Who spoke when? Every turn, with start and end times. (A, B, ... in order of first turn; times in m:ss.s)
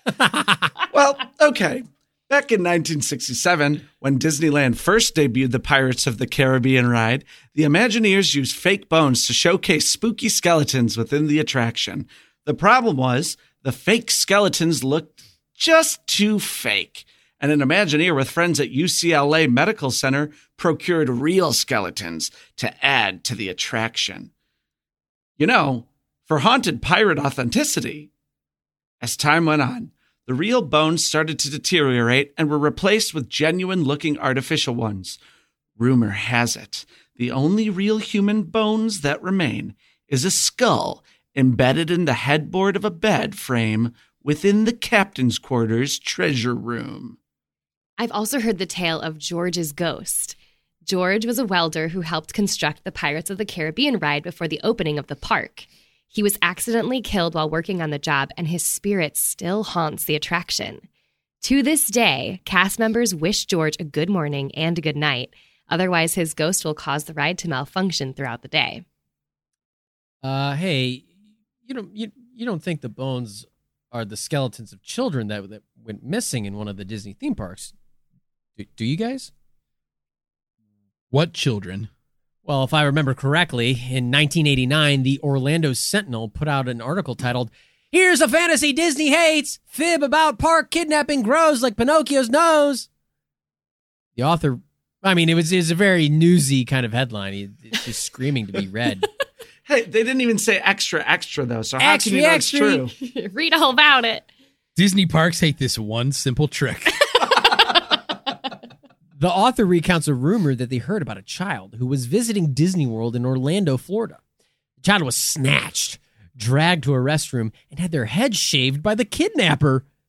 0:00.9-0:24.3 A
0:25.4-0:28.1 A
0:29.0-0:35.2 A
0:35.8-0:47.2 A
0:48.0-0:50.4 B
0:50.9-1:00.8 B
1:01.4-1:08.8 B
1:10.2-1:11.1 C
1:11.6-1:17.7 C
1:18.6-1:19.3 C
1:21.1-1:21.9 D
1:22.4-1:32.9 C
1:34.2-1:39.1 C
1:39.7-1:42.9 A
1:41.8-1:42.9 C
1:43.0-1:44.3 B
1:44.8-1:47.0 D
1:49.2-1:54.2 C
1:54.8-1:59.8 C